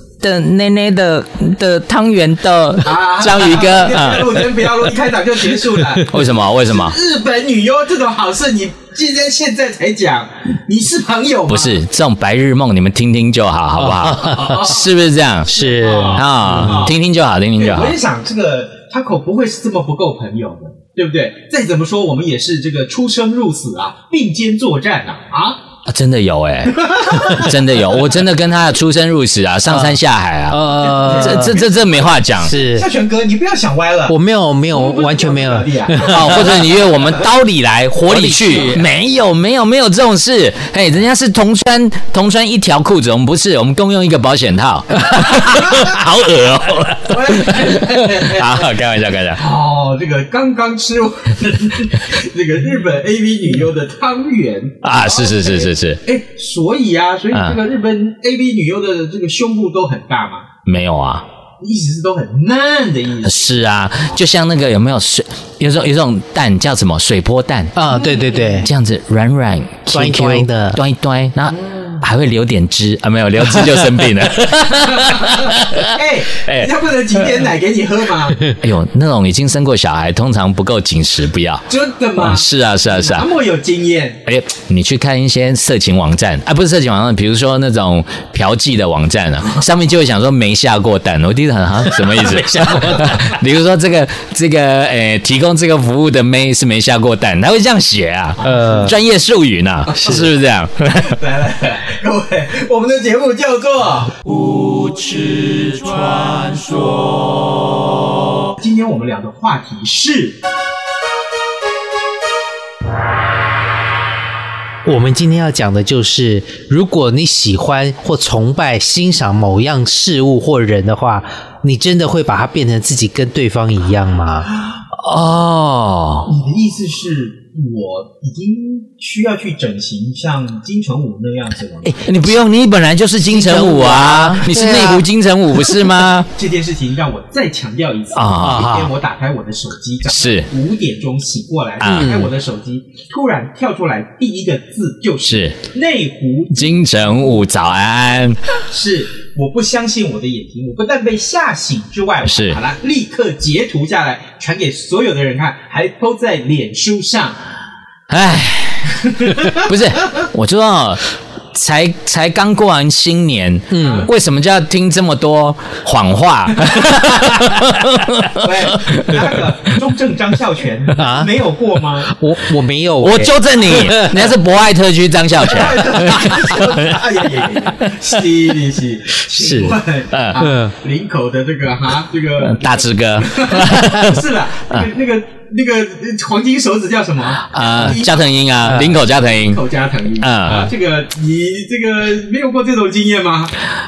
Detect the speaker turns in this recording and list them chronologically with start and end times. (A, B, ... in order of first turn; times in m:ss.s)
0:00.2-0:04.4 A
0:02.8-0:11.8 B
0:06.0-0:07.0 A
0:11.5-0:18.0 A
0:13.8-0:14.6 C
0:14.2-0:14.9 B
0:15.5-0:16.9 B
0:15.5-0:16.3 C
0:17.6-0:25.6 B
0:25.9-0:32.6 A
0:26.7-0:27.6 B
0:29.7-0:31.6 C
0:30.8-0:34.2 B
0:32.4-0:32.9 C
0:34.1-0:36.4 C
0:34.7-0:37.1 B
0:36.0-0:49.4 A
0:38.0-0:38.9 C
0:47.0-0:48.7 B
0:49.4-1:00.5 B
0:54.8-0:56.0 A
0:57.3-0:57.6 A
1:00.6-1:01.2 A
1:01.6-1:03.7 B
1:03.2-1:07.8 A
1:07.8-1:08.7 C
1:07.9-1:08.7 B
1:08.6-1:16.7 A
1:09.9-1:10.8 C
1:11.5-1:12.0 B
1:14.9-1:18.5 B
1:18.5-1:21.6 A
1:21.7-1:24.2 B
1:22.2-1:23.3 A
1:24.3-1:41.2 A
1:32.5-1:33.1 B
1:38.4-1:39.0 C
1:39.9-1:40.3 B
1:40.9-1:44.2 B
1:48.6-1:50.4 B
1:54.8-2:04.5 C
2:04.9-2:06.3 A
2:06.3-2:12.0 B
2:11.8-2:16.3 A
2:13.3-2:15.1 C
2:14.0-2:14.5 B
2:16.4-2:27.3 B
2:18.1-2:18.7 A
2:18.4-2:18.9 C
2:20.1-2:20.5 A
2:21.8-2:22.2 A
2:21.8-2:22.3 C
2:25.3-2:25.6 A
2:26.5-2:28.6 A
2:28.6-2:37.4 B
2:32.2-2:32.6 A
2:38.1-2:41.0 A
2:38.9-2:39.7 B
2:41.5-2:49.1 A
2:43.7-2:44.1 C
2:43.8-2:44.1 B
2:48.4-2:52.2 B
2:51.0-2:51.4 C
2:52.1-2:54.4 C
2:53.0-2:56.7 A
2:55.4-3:13.6 B
2:59.4-3:00.4 A
3:00.4-3:00.7 C
3:02.4-3:04.9 A
3:07.5-3:09.6 A
3:08.7-3:09.0 C
3:10.2-3:10.7 A